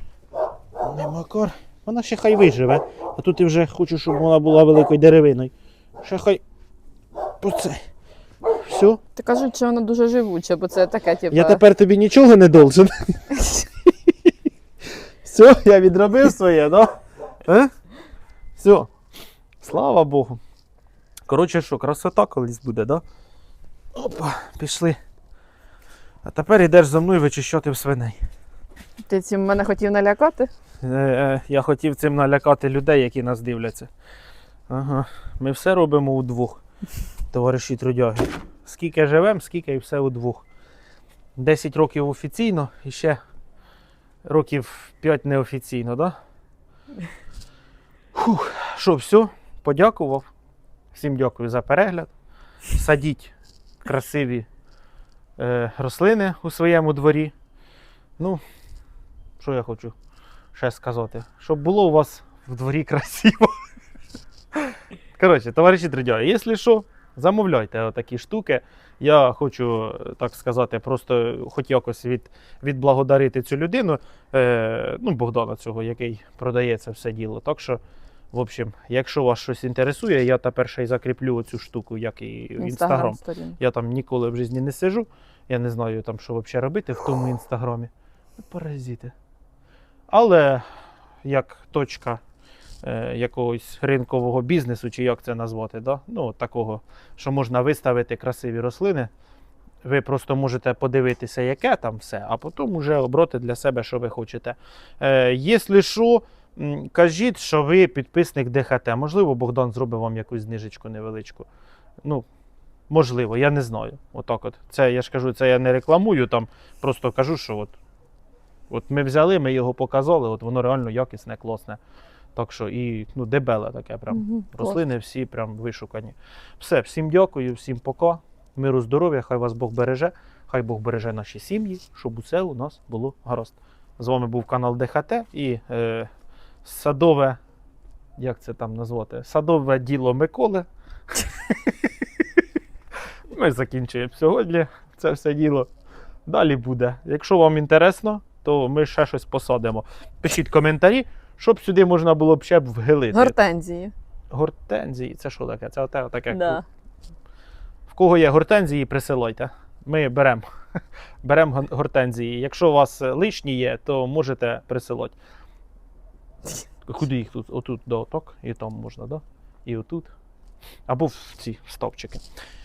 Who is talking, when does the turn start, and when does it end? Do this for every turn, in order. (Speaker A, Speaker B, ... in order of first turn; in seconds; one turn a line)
Speaker A: 0.8-6.4
Speaker A: 7.4-7.8
Speaker A: 8.5-9.0
Speaker B: 9.2-11.6
Speaker A: 11.3-13.2
Speaker A: 15.2-17.7
Speaker A: 18.6-18.9
Speaker A: 19.6-20.4
Speaker A: 21.3-23.0
Speaker A: 23.9-25.0
Speaker A: 26.2-28.2
Speaker B: 29.1-30.5
Speaker A: 30.8-33.9
Speaker A: 34.7-36.6
Speaker A: 37.3-40.4
Speaker A: 41.4-43.2
Speaker A: 44.2-46.1
Speaker A: 48.1-50.3
Speaker A: 50.9-52.1
Speaker A: 52.7-54.5
Speaker A: 55.4-57.3
Speaker A: 59.4-59.9
Speaker A: 60.5-63.6
Speaker A: 64.5-77.8
Speaker A: 78.3-89.1
Speaker B: 82.6-83.6
Speaker A: 90.1-90.7
Speaker A: 91.2-92.2
Speaker A: 92.8-99.1
Speaker A: 99.8-111.5
Speaker A: 112.9-117.7
Speaker A: 118.7-121.8
Speaker A: 122.3-136.1
Speaker B: 124.1-124.8
Speaker A: 136.6-137.4
Speaker A: 138.2-142.4
Speaker A: 143.3-145.7
Speaker A: 146.2-153.3
Speaker B: 153.1-153.9
Speaker A: 154.3-156.6
Speaker B: 156.3-156.6
Speaker A: 157.9-160.4
Speaker A: 161.2-165.1
Speaker A: 166.4-170.1
Speaker A: 170.9-172.2